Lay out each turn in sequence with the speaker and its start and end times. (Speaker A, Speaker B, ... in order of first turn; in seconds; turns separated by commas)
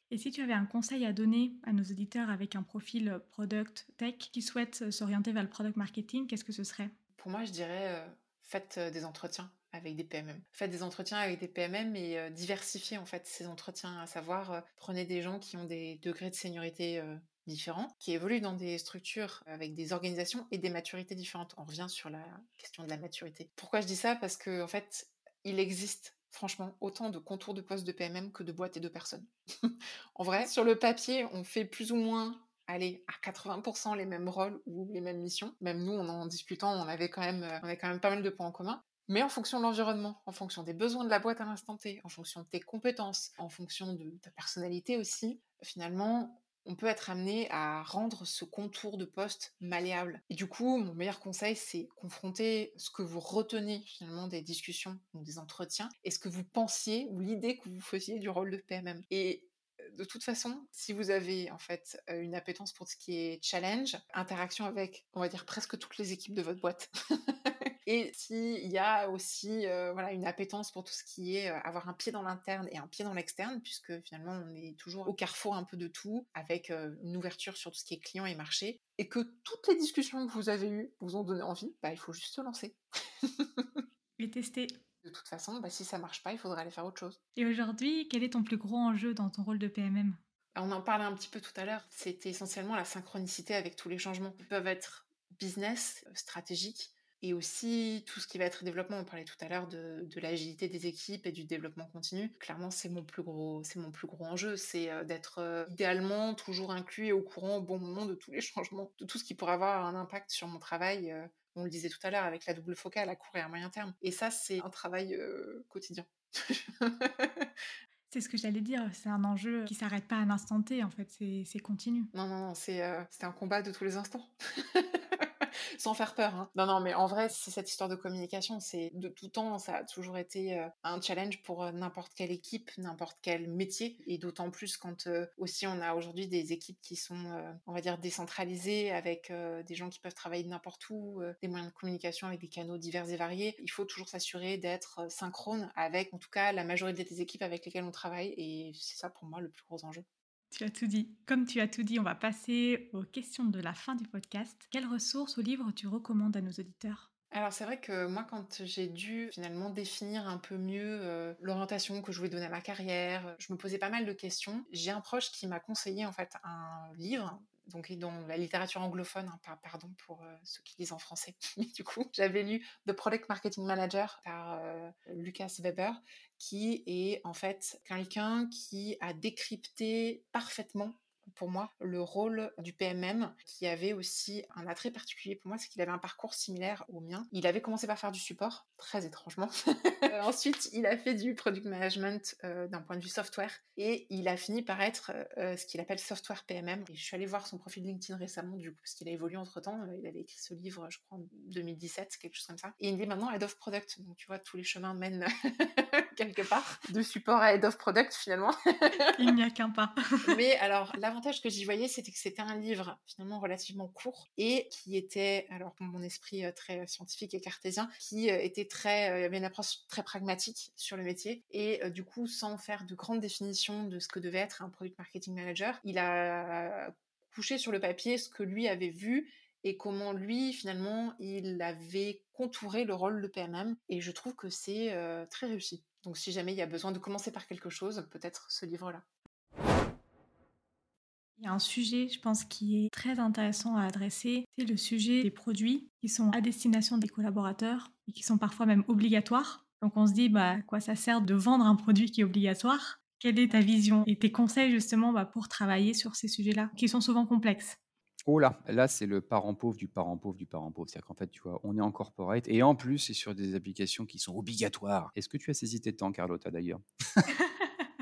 Speaker A: 0.1-6.9, Speaker B: 7.2-66.9, Speaker B: 67.5-83.8, Speaker A: 84.2-84.8, Speaker B: 85.0-87.2, Speaker A: 87.4-90.2, Speaker B: 90.5-117.5, Speaker A: 118.1-122.1, Speaker B: 122.1-150.1, Speaker A: 150.5-157.1, Speaker B: 157.3-209.3, Speaker A: 209.2-210.4, Speaker B: 210.3-239.1, Speaker A: 241.4-257.8, Speaker C: 258.3-267.2